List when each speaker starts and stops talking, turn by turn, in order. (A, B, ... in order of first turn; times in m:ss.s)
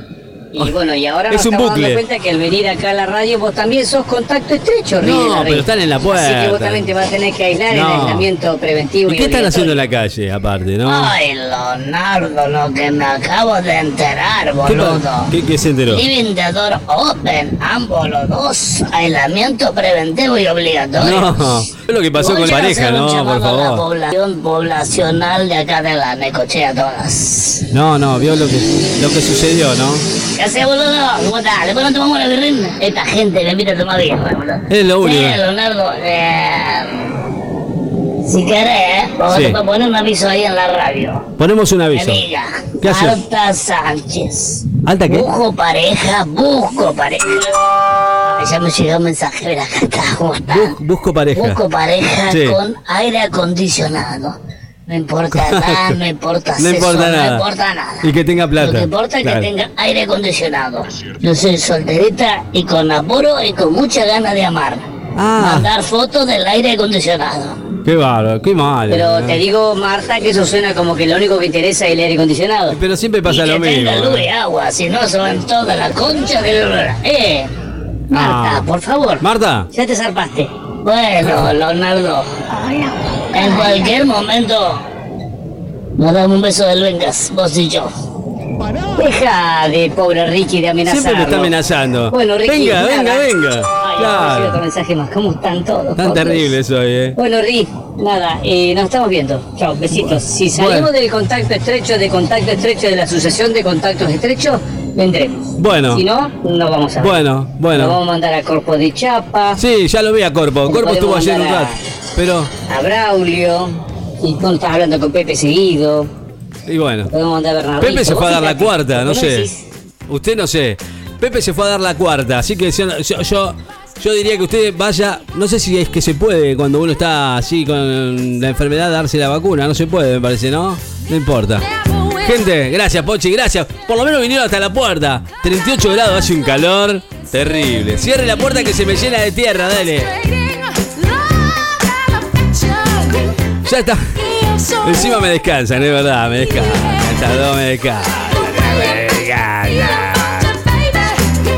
0:00.5-0:09.8 A
0:01.3-0:02.0 B
0:05.0-0:06.9 B
0:07.7-0:08.3 B
0:09.1-0:11.1 B
0:10.8-0:15.3 C
0:14.6-0:16.0 B
0:15.9-0:21.4 C
0:21.0-0:23.8 B
0:22.2-0:27.7 C
0:27.7-0:30.0 B
0:30.4-0:37.2 C
0:34.7-0:35.4 B
0:38.2-0:41.2 C
0:39.3-0:39.6 B
0:41.4-0:42.2 B
0:41.9-0:47.5 C
0:42.8-0:43.2 B
0:44.8-0:45.3 B
0:48.2-0:50.7 C
0:50.5-0:51.6 B
0:51.3-0:54.3 C
0:52.3-0:52.6 B
0:54.9-1:04.8 C
0:55.3-0:55.9 B
0:56.6-0:57.4 B
0:58.0-0:59.5 B
1:05.2-1:05.7 B
1:05.4-1:07.6 C
1:07.8-1:09.4 B
1:08.9-1:12.4 A
1:12.4-1:17.5 C
1:12.7-1:14.3 B
1:18.1-1:22.2 C
1:18.1-1:18.6 B
1:19.2-1:19.7 B
1:19.7-1:20.2 A
1:23.3-1:24.7 C
1:26.0-1:27.9 C
1:29.0-1:31.5 A
1:30.8-1:34.6 B
1:32.1-1:33.3 A
1:33.9-1:35.4 A
1:35.4-1:36.0 C
1:36.0-1:36.5 A
1:36.0-1:37.2 B
1:37.2-1:49.6 A
1:39.9-1:40.9 B
1:45.6-1:46.0 B
1:47.0-1:48.0 B
1:49.6-1:52.5 B
1:50.6-1:51.8 A
1:52.7-1:56.1 A
1:56.7-1:57.1 B
1:57.1-1:59.5 A
1:57.8-1:59.5 B
2:00.1-2:20.3 B
2:20.4-2:23.3 A
2:23.6-2:30.7 B
2:30.8-2:31.2 A